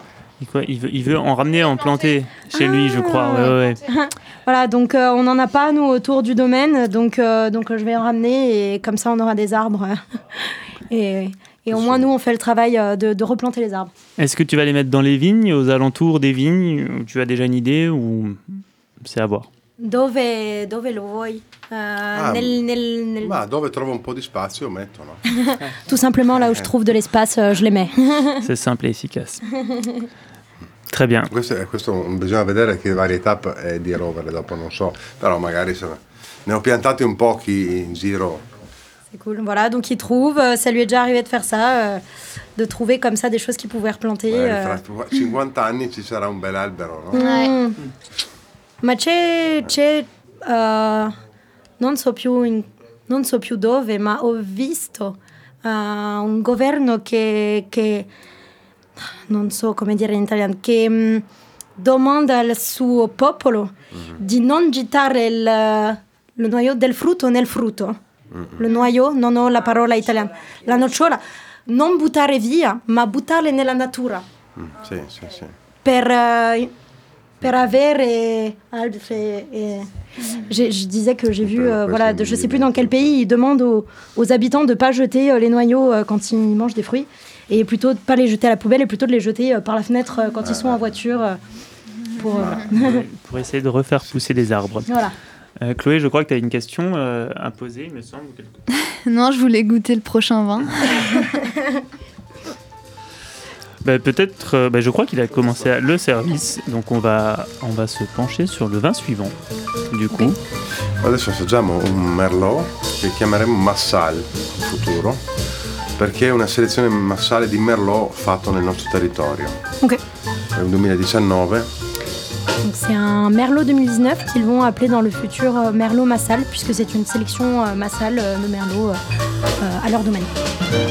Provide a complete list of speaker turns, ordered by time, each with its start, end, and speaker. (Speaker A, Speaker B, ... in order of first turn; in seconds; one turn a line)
Speaker A: 0.4-3.8
Speaker B: 2.5-13.9
Speaker C: 11.7-12.1
Speaker A: 14.2-19.5
Speaker B: 19.8-23.4
Speaker C: 22.1-22.6
Speaker C: 23.2-25.2
Speaker B: 25.3-28.4
Speaker C: 26.3-26.7
Speaker A: 28.4-29.4
Speaker B: 29.6-30.0
Speaker A: 30.9-31.3
Speaker C: 31.3-38.5
Speaker B: 39.1-42.0
Speaker B: 42.5-44.8
Speaker C: 44.3-47.3
Speaker B: 47.1-47.8
Speaker D: 47.1-47.5
Speaker B: 48.8-51.1
Speaker B: 51.8-58.1
Speaker B: 59.1-61.2
Speaker B: 61.8-68.0
Speaker C: 68.3-68.7
Speaker B: 68.6-74.2
Speaker C: 74.5-75.5
Speaker B: 75.8-76.7
Speaker B: 77.4-91.4
Speaker C: 81.4-83.2
Speaker C: 90.4-90.8
Speaker B: 92.1-93.0
Speaker C: 92.4-92.8
Speaker A: 92.4-95.0
Speaker B: 94.9-95.1
Speaker A: 95.6-98.6
Speaker D: 98.8-101.3
Speaker A: 103.8-109.3
Speaker A: 109.9-110.4
Speaker C: 111.0-115.3
Speaker C: 116.0-119.6
Speaker C: 120.5-121.7
Speaker B: 122.6-129.0
Speaker B: 129.6-130.3